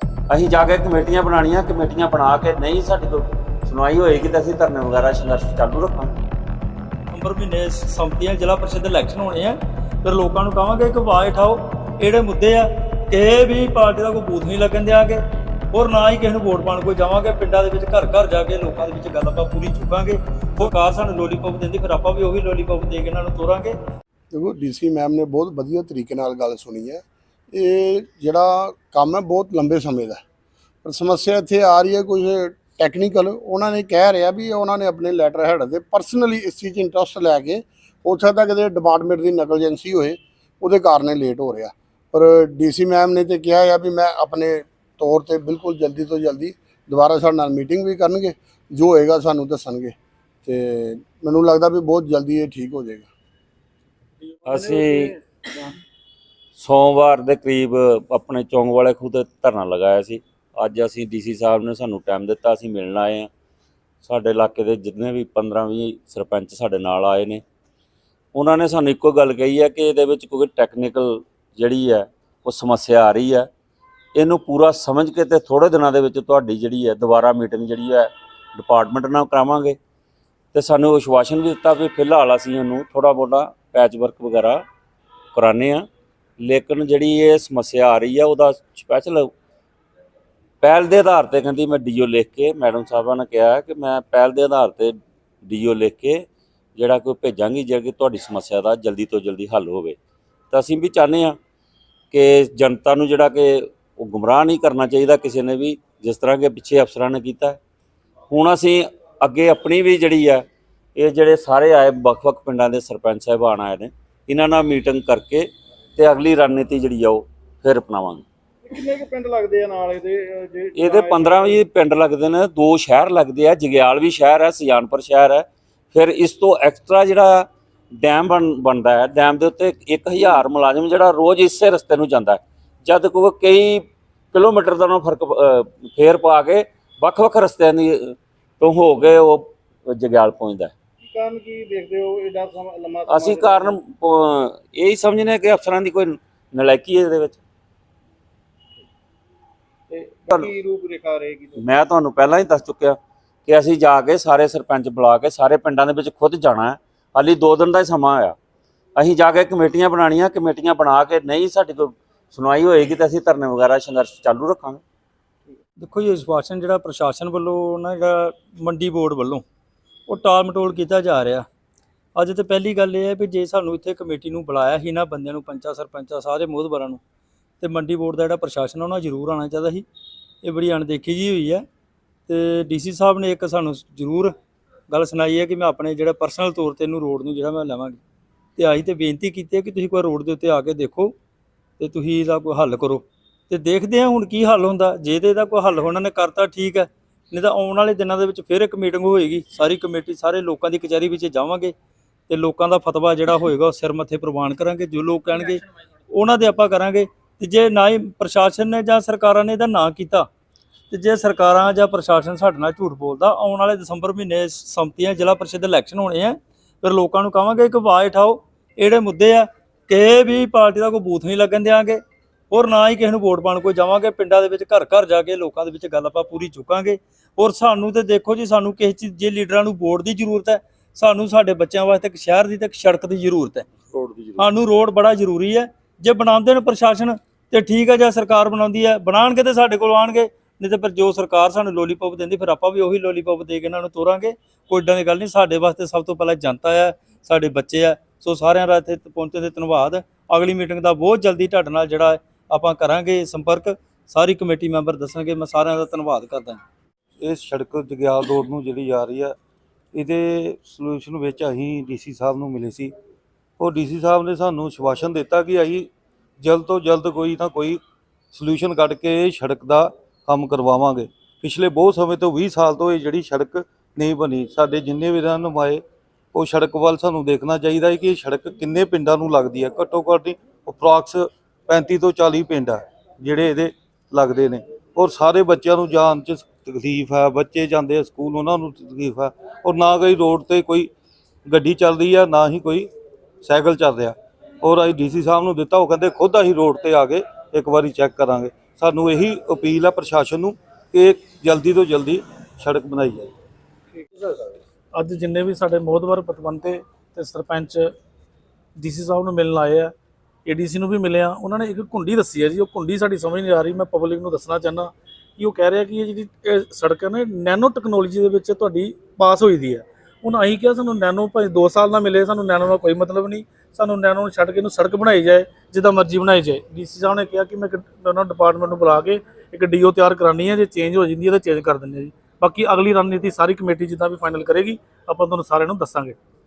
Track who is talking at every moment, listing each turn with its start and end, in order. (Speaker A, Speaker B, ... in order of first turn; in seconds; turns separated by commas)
Speaker A: 0.3-6.1, Speaker B: 7.1-23.8, Speaker C: 24.3-30.2, Speaker C: 30.8-53.1, Speaker A: 54.5-55.1, Speaker B: 54.5-54.9, Speaker A: 56.5-63.3, Speaker A: 64.0-67.4, Speaker A: 68.3-73.5, Speaker A: 74.2-79.7, Speaker A: 80.5-84.6, Speaker A: 85.3-85.8, Speaker A: 86.4-89.3, Speaker A: 90.6-99.9, Speaker A: 100.5-101.3, Speaker A: 102.1-107.6, Speaker A: 108.3-110.4, Speaker A: 111.0-118.2, Speaker D: 118.6-121.6, Speaker A: 120.7-140.7, Speaker D: 141.0-143.8, Speaker A: 143.1-147.4, Speaker D: 149.9-151.6, Speaker A: 151.6-152.9, Speaker A: 153.5-158.3, Speaker A: 159.0-164.8, Speaker B: 165.8-169.4, Speaker B: 170.1-171.5, Speaker B: 172.1-177.0, Speaker B: 177.6-179.8, Speaker B: 180.4-181.7, Speaker B: 182.3-184.3, Speaker B: 184.9-188.0, Speaker B: 188.6-191.1, Speaker B: 191.8-201.7, Speaker B: 202.3-210.3, Speaker B: 210.9-233.7, Speaker A: 233.9-234.5, Speaker B: 234.4-256.6, Speaker E: 257.2-259.3, Speaker E: 259.9-262.9, Speaker E: 263.6-265.9, Speaker E: 266.4-267.8, Speaker E: 268.3-290.9, Speaker E: 291.4-292.9, Speaker E: 293.4-303.3, Speaker B: 304.9-307.9, Speaker B: 308.8-309.9, Speaker B: 310.4-336.1